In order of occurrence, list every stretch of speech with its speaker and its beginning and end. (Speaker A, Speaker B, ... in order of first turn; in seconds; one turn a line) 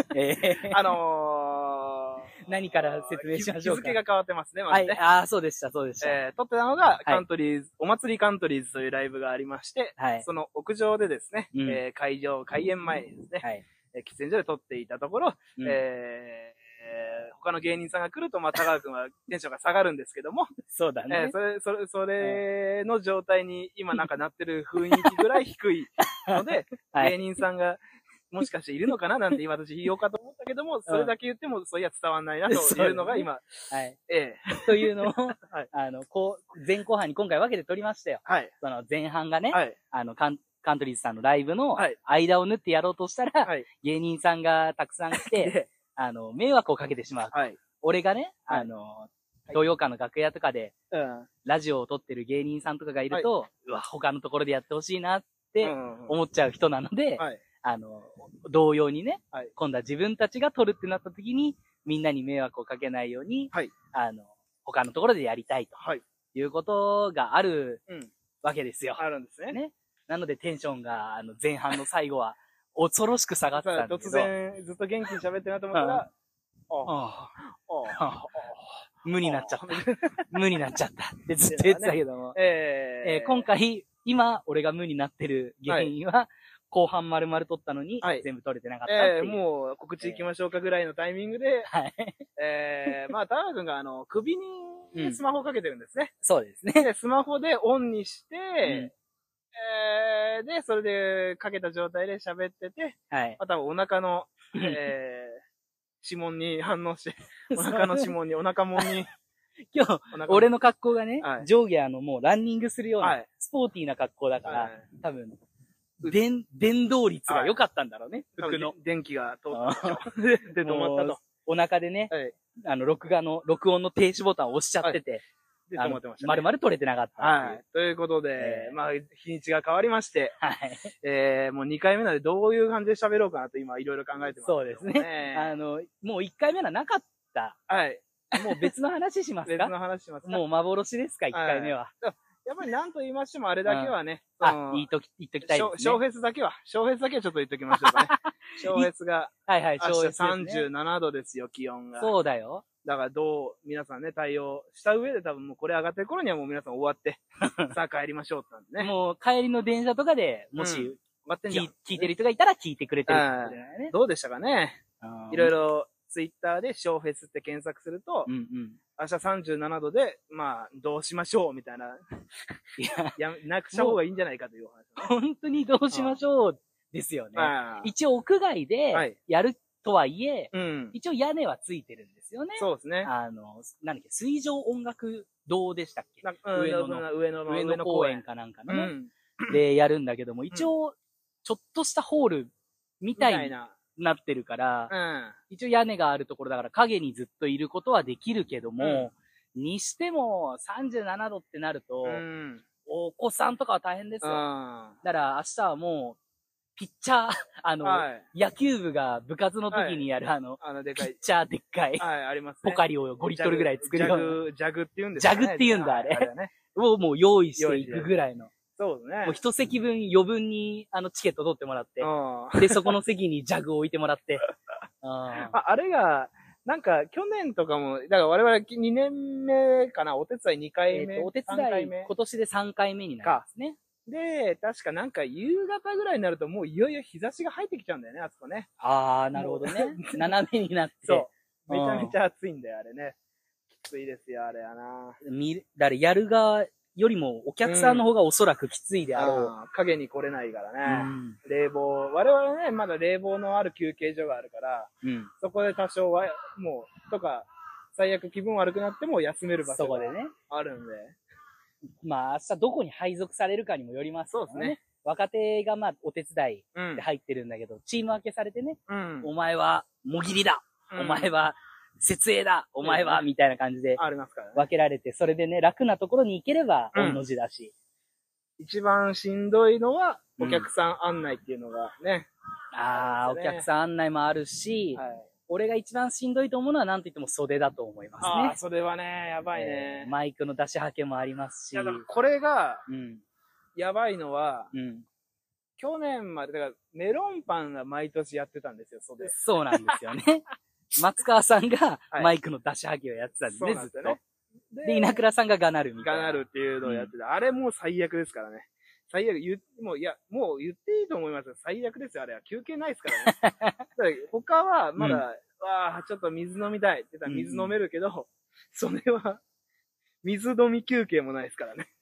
Speaker A: 0.1-0.9
Speaker B: 0.7-5.0
Speaker A: 2.4-4.0
Speaker A: 4.7-6.2
Speaker B: 6.0-20.5
Speaker A: 10.0-10.3
Speaker A: 11.5-11.8
Speaker A: 20.7-21.4
Speaker B: 21.1-33.4
Speaker A: 24.9-25.3
Speaker A: 26.2-27.2
Speaker A: 32.5-34.0
Speaker B: 34.1-35.7
Speaker A: 34.6-50.7
Speaker B: 38.3-38.5
Speaker B: 45.2-45.7
Speaker B: 47.3-47.6
Speaker B: 50.9-51.3
Speaker A: 51.5-65.8
Speaker B: 55.6-56.2
Speaker B: 65.8-66.0
Speaker A: 66.3-67.8
Speaker A: 68.4-74.3
Speaker B: 69.0-69.6
Speaker B: 73.5-76.1
Speaker A: 75.7-76.0
Speaker B: 76.7-78.5
Speaker A: 76.8-77.3
Speaker A: 77.9-78.5
Speaker A: 79.0-82.4
Speaker B: 79.2-80.3
Speaker B: 81.5-83.5
Speaker A: 83.0-89.4
Speaker B: 88.9-91.7
Speaker A: 91.7-92.2
Speaker B: 92.4-96.1
Speaker A: 95.0-95.2
Speaker A: 96.2-96.9
Speaker B: 96.8-98.9
Speaker A: 98.6-98.9
Speaker B: 99.5-105.4
Speaker A: 103.1-103.4
Speaker A: 104.5-104.8
Speaker B: 106.0-109.1
Speaker A: 107.5-108.1
Speaker A: 109.7-115.4
Speaker B: 110.1-110.5
Speaker B: 111.2-111.5
Speaker B: 114.5-114.8
Speaker A: 116.0-118.7
Speaker B: 117.3-117.5
Speaker B: 118.4-121.2
Speaker A: 119.5-120.0
Speaker A: 120.6-125.2
Speaker B: 125.7-126.5
Speaker A: 125.8-127.6
Speaker B: 127.2-130.3
Speaker A: 128.4-128.8
Speaker A: 130.4-130.9
Speaker B: 131.0-135.5
Speaker A: 134.4-137.6
Speaker B: 137.7-138.7
Speaker A: 138.4-139.7
Speaker B: 139.5-140.4
Speaker A: 140.3-141.9
Speaker B: 141.3-144.9
Speaker A: 143.7-146.0
Speaker B: 145.4-152.1
Speaker A: 147.7-148.9
Speaker A: 149.5-150.7
Speaker A: 152.0-152.6
Speaker B: 152.8-158.9
Speaker A: 157.4-157.7
Speaker A: 158.8-163.9
Speaker B: 160.6-162.1
Speaker B: 163.1-164.8
Speaker A: 165.0-165.5
Speaker B: 165.3-168.3
Speaker A: 168.3-168.8
Speaker B: 169.0-172.0
Speaker A: 172.8-173.2
Speaker B: 173.2-175.1
Speaker A: 173.7-174.0
Speaker A: 175.0-188.9
Speaker B: 175.9-176.2
Speaker B: 177.4-177.9
Speaker B: 180.5-180.9
Speaker B: 182.6-183.1
Speaker B: 186.2-189.6
Speaker A: 189.5-194.9
Speaker B: 193.2-193.8
Speaker B: 194.9-195.4
Speaker A: 195.5-202.2
Speaker B: 198.8-199.1
Speaker B: 202.1-202.7
Speaker A: 202.9-204.4
Speaker B: 204.2-205.0
Speaker A: 205.0-206.2
Speaker A: 206.8-212.1
Speaker B: 207.8-208.2
Speaker B: 209.7-210.1
Speaker B: 210.6-211.2
Speaker B: 212.0-216.5
Speaker A: 212.6-214.4
Speaker A: 215.2-218.5
Speaker B: 217.6-218.1
Speaker B: 218.8-219.4
Speaker A: 219.2-224.5
Speaker B: 222.0-222.9
Speaker A: 225.0-225.6
Speaker B: 225.4-232.1
Speaker A: 230.9-233.8
Speaker B: 234.1-238.7
Speaker A: 238.8-242.2
Speaker B: 239.4-240.3
Speaker B: 241.1-243.2
Speaker B: 243.7-245.2
Speaker A: 245.2-249.5
Speaker B: 247.7-248.1
Speaker B: 249.2-261.2
Speaker A: 250.9-251.4
Speaker A: 255.0-255.3
Speaker A: 259.7-260.3
Speaker A: 262.0-274.0
Speaker B: 264.3-264.8
Speaker B: 266.8-267.1
Speaker B: 268.9-269.3
Speaker B: 270.9-271.3
Speaker B: 272.8-273.2
Speaker B: 274.0-274.6
Speaker A: 274.6-277.7
Speaker B: 276.9-277.2
Speaker B: 278.6-282.3
Speaker A: 280.4-280.7
Speaker A: 282.7-288.6
Speaker B: 282.9-283.7
Speaker B: 284.9-285.3
Speaker B: 288.2-290.1
Speaker A: 289.5-292.1
Speaker B: 291.7-292.9
Speaker A: 292.9-293.2
Speaker B: 293.8-294.7
Speaker A: 294.7-295.1
Speaker B: 295.8-299.3
Speaker A: 299.2-304.2
Speaker B: 303.5-304.2
Speaker B: 304.7-305.2
Speaker A: 304.9-307.1
Speaker B: 306.0-313.4
Speaker A: 313.2-313.8
Speaker B: 314.0-319.4
Speaker A: 315.0-315.2
Speaker A: 317.3-317.8
Speaker B: 320.2-321.9